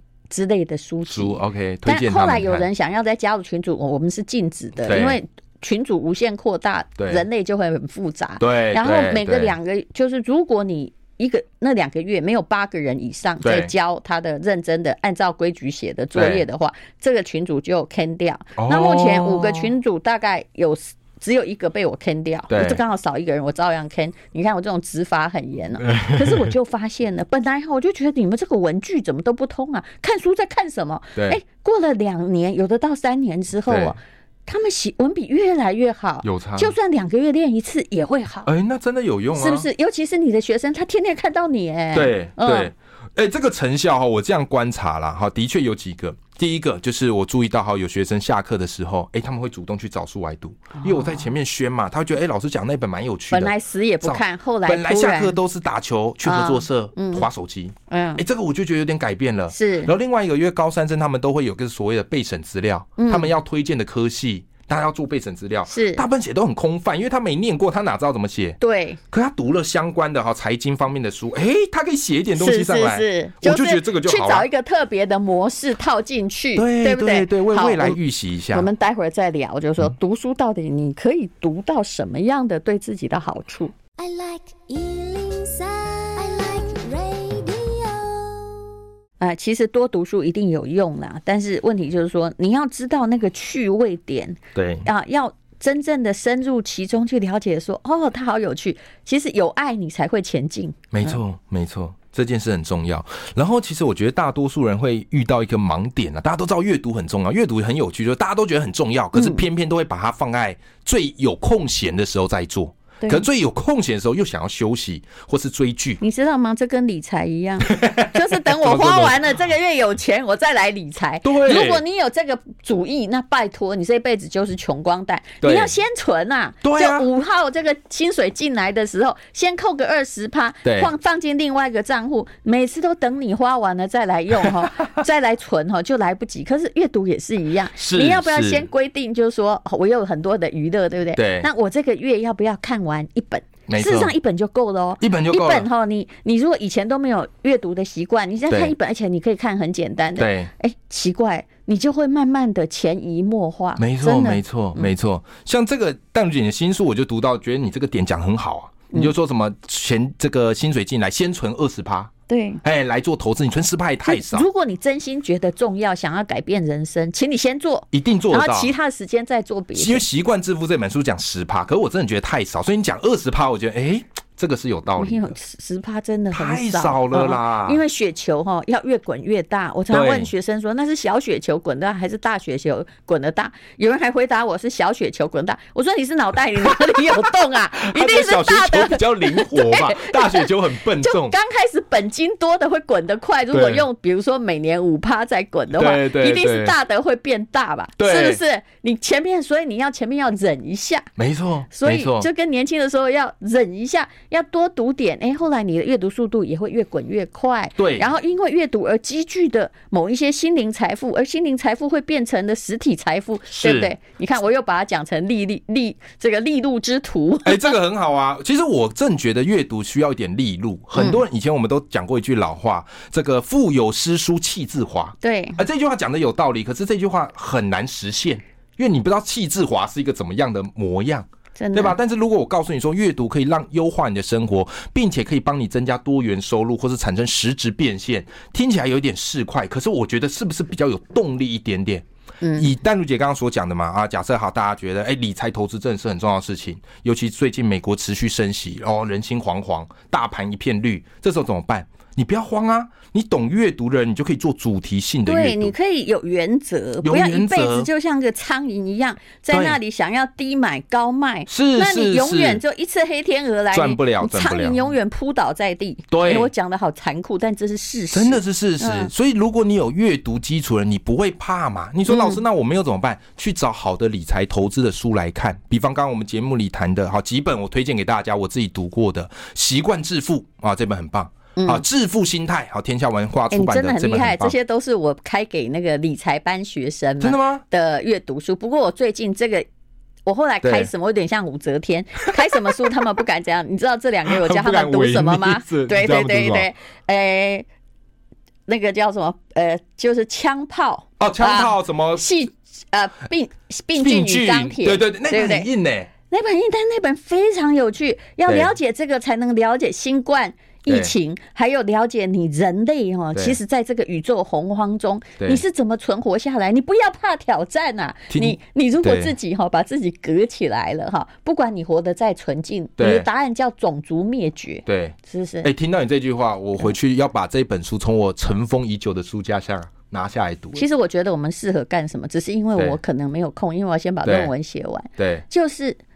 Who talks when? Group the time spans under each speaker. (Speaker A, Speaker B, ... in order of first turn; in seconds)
Speaker A: 0.3-38.5, 39.3-42.7, 50.8-51.3, 53.3-55.4, 56.2-57.3, 57.9-58.2, 59.5-59.9, 63.0-63.3, 65.7-66.0, 68.6-69.0, 72.3-78.0, 78.5-83.9, 86.2-87.1, 89.2-101.2, 109.1-109.4, 113.0-113.2, 116.0-154.9, 162.3-162.6, 164.0-170.0, 175.0-201.1, 201.7-217.7, 220.9-221.2, 225.2-225.6, 231.6-232.0, 242.4-242.7, 255.2-269.1, 272.1-272.4, 281.6-281.8, 283.5-289.7, 290.2-297.7, 298.7-305.7, 306.3-325.7, 330.7-336.0
Speaker B: 1.1-2.6, 4.8-5.2, 7.0-7.2, 8.4-9.5, 13.4-13.7, 16.1-16.4, 18.6-19.7, 22.5-22.8, 25.8-26.5, 33.7-34.0, 36.2-36.7, 38.5-39.7, 41.9-68.6, 69.1-74.5, 76.5-78.7, 94.5-94.9, 100.9-116.0, 117.7-119.4, 121.2-121.8, 125.4-125.7, 126.6-127.1, 130.6-130.9, 137.7-138.7, 141.2-141.5, 143.7-144.1, 145.0-145.7, 148.5-148.7, 150.2-150.5, 153.8-162.1, 162.6-164.5, 167.9-168.7, 169.7-175.3, 176.3-177.8, 179.9-180.3, 186.6-187.2, 187.8-191.3, 193.5-193.8, 195.7-196.7, 198.0-198.4, 201.2-202.3, 207.8-208.1, 213.5-213.9, 217.4-242.0, 242.6-255.7, 257.0-257.9, 259.5-259.8, 261.5-262.6, 263.7-264.8, 266.1-266.5, 268.1-284.5, 287.2-287.6, 290.6-290.9, 292.4-292.7, 294.3-296.7, 301.2-302.2, 303.9-306.1, 308.4-308.7, 310.9-311.1, 318.3-319.3, 323.0-323.3, 324.9-330.8, 334.2-334.5, 335.2-335.4
Speaker C: 84.0-88.4